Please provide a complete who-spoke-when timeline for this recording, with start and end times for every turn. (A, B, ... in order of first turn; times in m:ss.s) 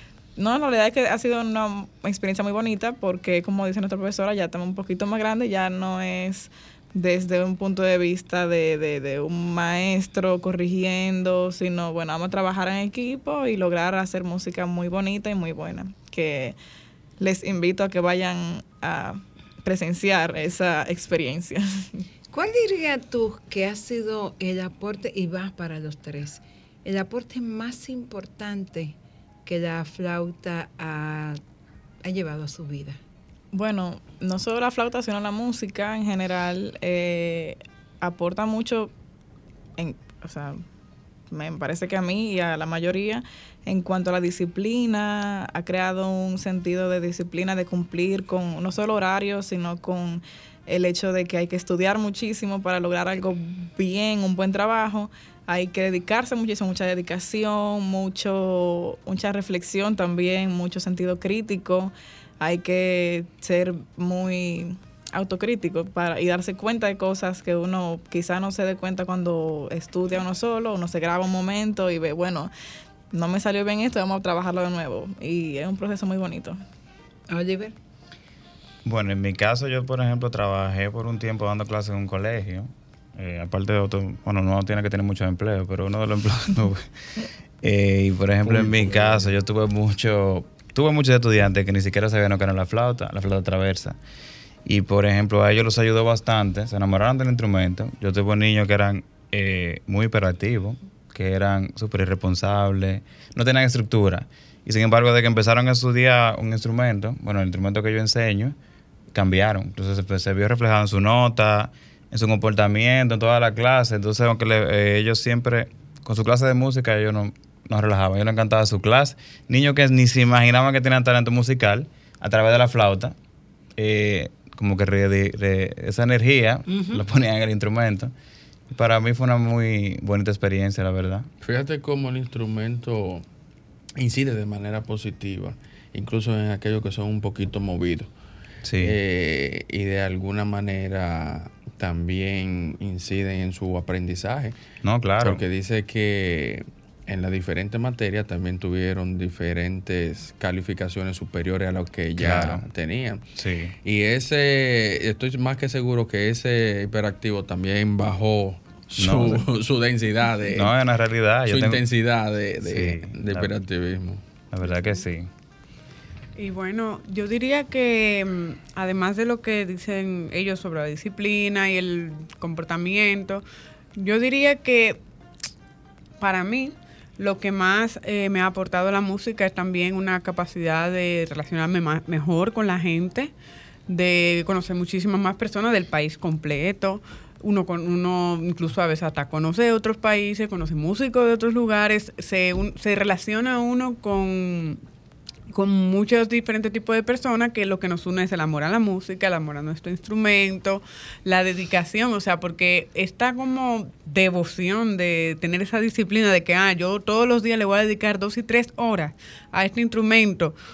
0:00.4-0:16.6 A
0:17.2-0:21.9 A
0:22.3-0:31.4 B
0:32.0-0:33.0 B
0:33.5-0:38.9 A
0:39.8-0:40.6 A
0:41.3-1:12.5 A
1:13.1-1:16.6 A
1:17.3-1:17.8 B
1:18.8-1:26.9 C
1:27.6-1:34.0 C
1:28.4-1:29.3 D
1:34.6-1:48.6 C
1:49.1-2:03.2 C
2:03.8-2:08.1 C
2:06.7-2:07.0 B
2:08.7-2:11.3 C
2:11.4-2:13.2 D
2:14.0-2:18.1 D
2:18.6-2:19.0 C
2:18.8-2:24.6 D
2:24.8-2:25.4 C
2:25.2-2:33.2 D
2:32.2-2:32.7 C
2:33.4-2:33.8 C
2:33.8-2:40.7 D
2:39.0-2:39.5 C
2:40.5-2:41.8 C
2:41.5-2:44.2 D
2:42.6-2:43.6 C
2:44.5-2:45.3 C
2:46.4-2:53.4 E
2:54.0-2:55.0 E
2:56.2-3:03.3 E
3:03.9-3:14.8 E
3:15.5-3:30.6 E